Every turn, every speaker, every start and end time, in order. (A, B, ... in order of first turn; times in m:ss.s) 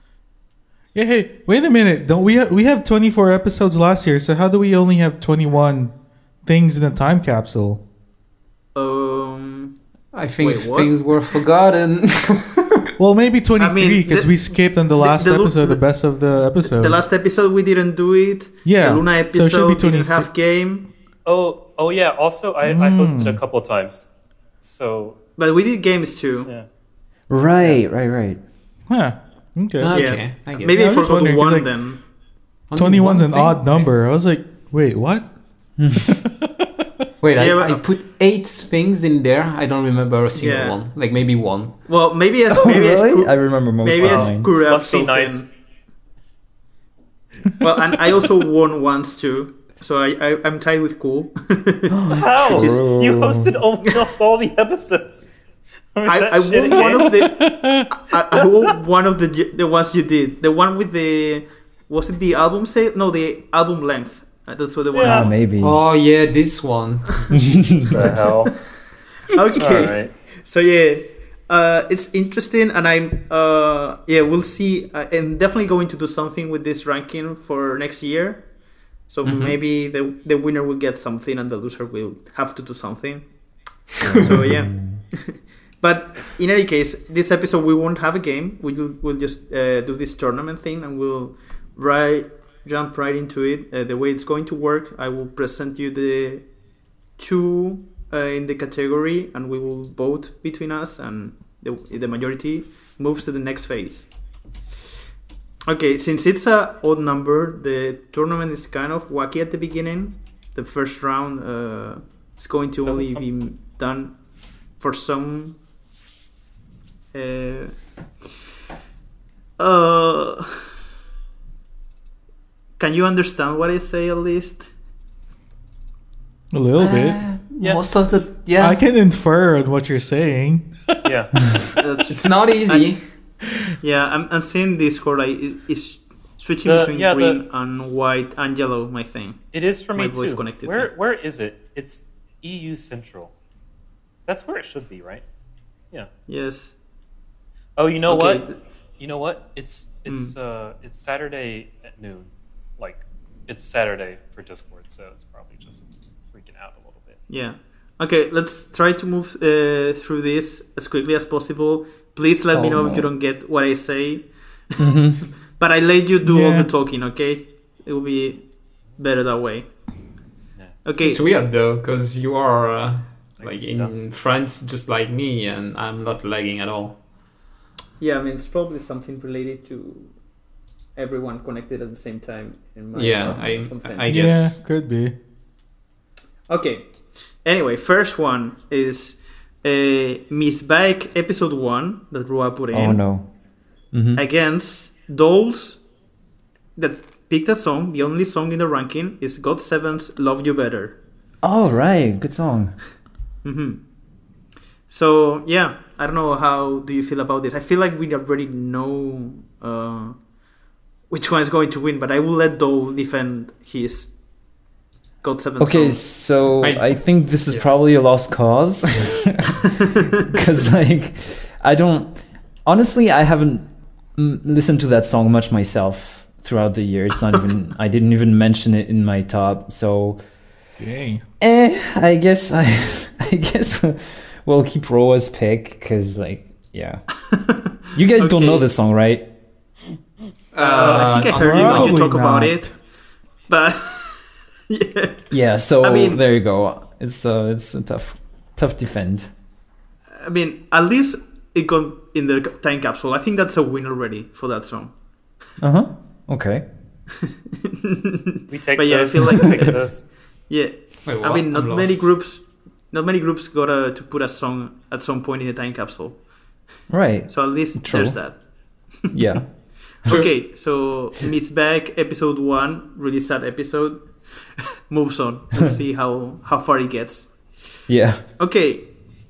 0:00.9-0:05.9 A
0:06.4-0:07.8 A
0:08.7-0:09.7 B
0:10.1-0:12.9 C
0:10.4-0:10.9 B
0:13.0-0:17.0 A
0:13.6-0:15.8 B
0:16.6-0:20.8 B
0:18.6-0:20.3 A
0:21.2-0:24.1 D
0:22.6-0:23.4 A
0:24.6-0:25.2 D
0:25.4-0:26.5 B
0:27.3-0:28.4 E
0:28.9-0:29.9 A
0:29.8-0:31.0 C
0:29.9-0:32.0 B
0:30.6-0:31.7 A
0:32.7-0:33.9 C
0:32.8-0:35.2 A
0:35.8-0:36.2 E
0:36.0-0:36.7 A
0:37.2-0:41.7 C
0:37.4-0:37.8 B
0:40.4-0:40.8 B
0:41.9-0:45.4 B
0:42.5-0:44.5 E
0:44.0-0:45.4 D
0:47.6-0:52.8 B
0:51.9-0:53.6 E
0:52.1-0:55.3 D
0:56.0-0:57.3 D
0:56.0-1:05.3 B
0:56.7-0:57.9 A
1:04.9-1:05.3 D
1:05.0-1:05.8 E
1:05.6-1:07.3 C
1:07.3-1:08.2 E
1:07.8-1:08.6 D
1:09.3-1:18.4 B
1:09.6-1:10.1 D
1:19.1-1:23.2 B
1:19.2-1:19.6 C
1:24.0-1:25.0 E
1:24.1-1:36.4 B
1:37.2-1:44.1 B
1:45.7-1:54.1 B
1:52.8-1:53.2 D
1:54.8-1:55.6 B
1:57.1-1:57.7 B
1:59.6-2:00.6 B
2:02.8-2:04.7 B
2:06.5-2:07.2 A
2:06.8-2:08.8 C
2:08.6-2:11.0 A
2:11.0-2:11.3 D
2:11.8-2:12.9 B
2:12.1-2:13.0 C
2:13.8-2:19.4 B
2:16.6-2:17.4 D
2:19.5-2:23.3 D
2:19.9-2:20.9 B
2:24.3-2:25.2 D
2:26.3-2:26.7 B
2:27.8-2:28.4 D
2:28.1-2:28.6 B
2:29.0-2:37.2 D
2:30.0-2:30.3 B
2:37.3-2:45.0 B
2:42.5-2:43.1 E
2:44.8-2:45.2 E
2:45.6-2:48.4 B
2:46.2-2:46.7 A
2:49.0-2:49.6 B
2:50.8-2:51.2 B
2:51.0-2:57.0 C
2:53.4-2:53.9 D
2:58.0-3:00.1 B
3:01.0-3:04.1 B
3:02.9-3:04.6 C
3:04.1-3:05.1 A
3:06.5-3:06.9 B
3:07.4-3:13.0 B
3:12.7-3:13.2 E
3:13.9-3:14.2 E
3:14.2-3:15.8 B
3:16.8-3:21.0 B
3:21.4-3:22.8 E
3:23.4-3:23.8 B
3:24.9-3:30.2 B
3:31.1-3:34.1 B
3:35.2-3:36.0 B
3:35.6-3:43.6 E
3:39.8-3:40.1 B
3:44.2-3:50.2 E
3:50.8-3:51.2 A
3:51.4-3:57.0 E
3:57.3-3:58.7 B
3:57.9-3:59.2 E
4:00.5-4:02.1 C
4:00.6-4:02.7 B
4:01.3-4:02.7 A
4:03.5-4:05.2 B
4:05.3-4:09.3 E
4:05.8-4:06.2 B
4:10.1-4:14.9 B
4:15.6-4:16.6 E
4:17.2-4:19.8 B
4:18.5-4:20.0 D
4:20.5-4:26.2 B
4:21.0-4:22.1 C
4:26.9-4:28.2 E
4:27.3-4:28.4 B
4:29.1-4:29.4 E
4:30.0-4:34.0 B
4:34.9-4:37.3 B
4:37.9-4:38.2 E
4:38.4-4:38.9 B